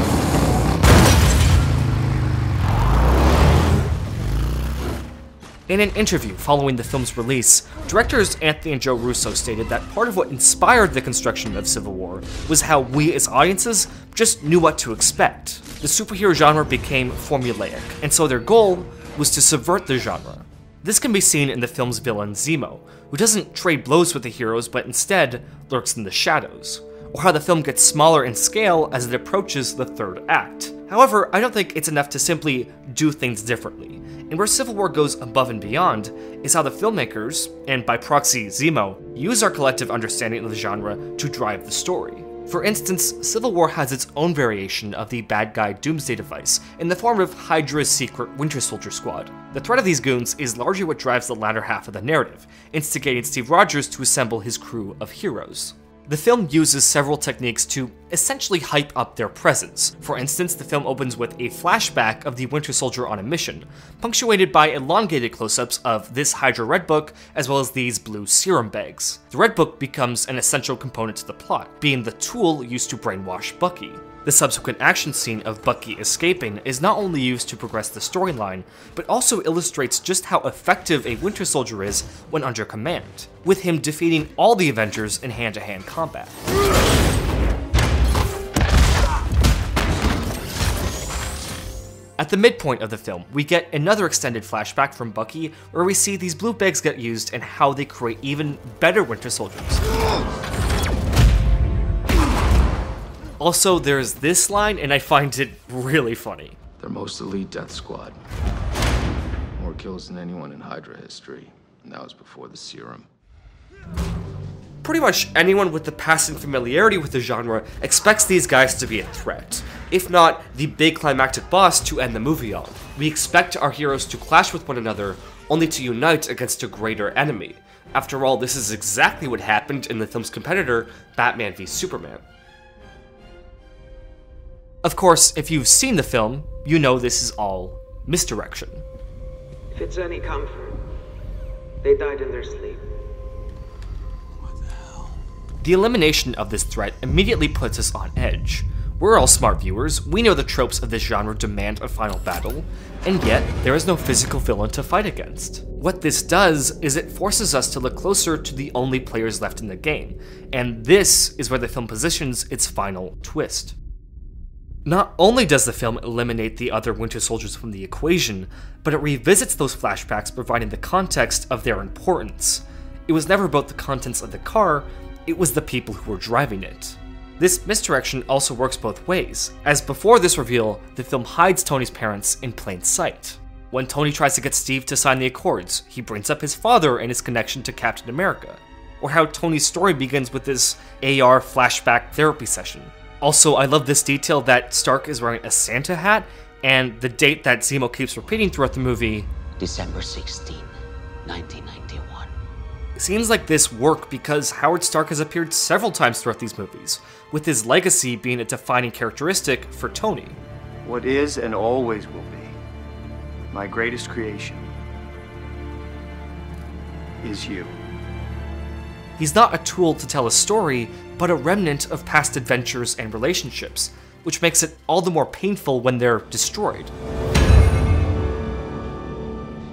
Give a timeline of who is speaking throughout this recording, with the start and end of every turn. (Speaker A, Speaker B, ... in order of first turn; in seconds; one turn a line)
Speaker A: 5.7-86.4
Speaker A: 92.2-99.8
Speaker A: 103.4-106.6
Speaker B: 106.8-108.2
Speaker B: 109.6-113.1
Speaker A: 114.8-132.2
Speaker A: 134.8-138.8
Speaker C: 139.8-140.8
Speaker C: 141.8-142.8
Speaker A: 142.0-142.6
Speaker A: 145.6-163.8
Speaker A: 164.8-199.3
Speaker D: 199.6-200.7
Speaker D: 201.3-202.3
Speaker A: 203.0-210.4
Speaker E: 210.8-211.8
Speaker E: 213.5-214.6
Speaker E: 217.2-217.7
Speaker A: 219.2-226.9